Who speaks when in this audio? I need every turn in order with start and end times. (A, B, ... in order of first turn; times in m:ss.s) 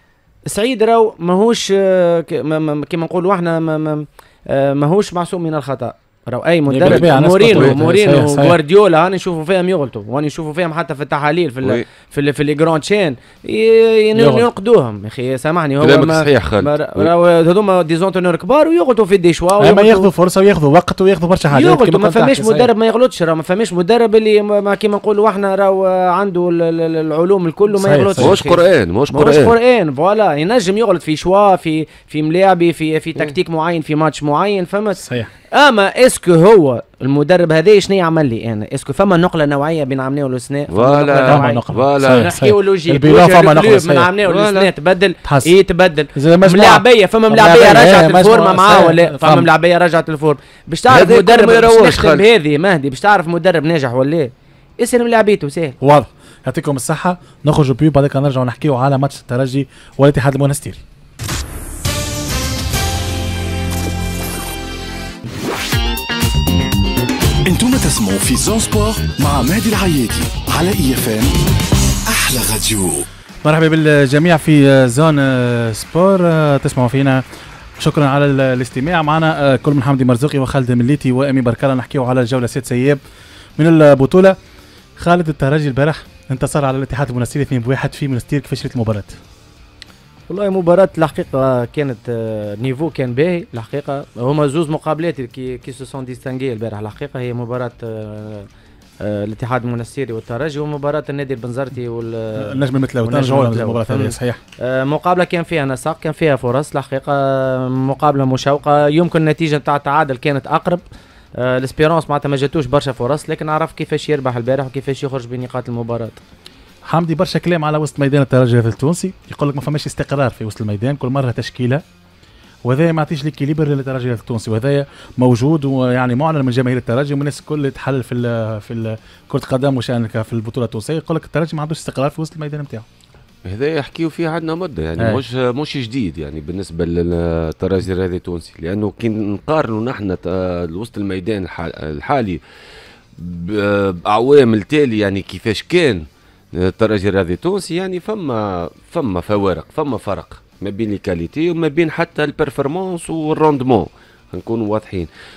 0:00.5-0:20.1 A
0:06.7-0:08.6 B
0:06.8-0:07.8 C
0:14.2-0:14.5 B
0:15.8-0:17.1 C
0:19.6-0:22.7 B
0:21.5-0:28.6 A
0:27.7-0:28.4 B
0:28.2-0:29.5 C
0:29.1-0:35.0 A
0:35.0-0:35.3 B
0:35.5-0:55.8 A
0:40.7-0:42.3 C
0:41.2-0:44.1 B
0:44.2-0:44.7 C
0:46.1-0:49.5 B
0:50.9-0:52.2 C
0:55.8-1:00.8 B
1:07.4-1:11.4 D
1:12.0-1:13.0 D
1:13.4-1:17.2 B
1:17.8-1:23.0 B
1:23.6-1:24.4 B
1:25.0-1:29.2 B
1:30.3-1:38.5 A
1:39.0-1:50.8 A
1:42.4-1:44.4 B
1:51.4-1:56.2 A
1:56.9-2:01.8 B
2:02.6-2:12.8 B
2:13.4-2:22.4 C
2:23.2-2:35.1 C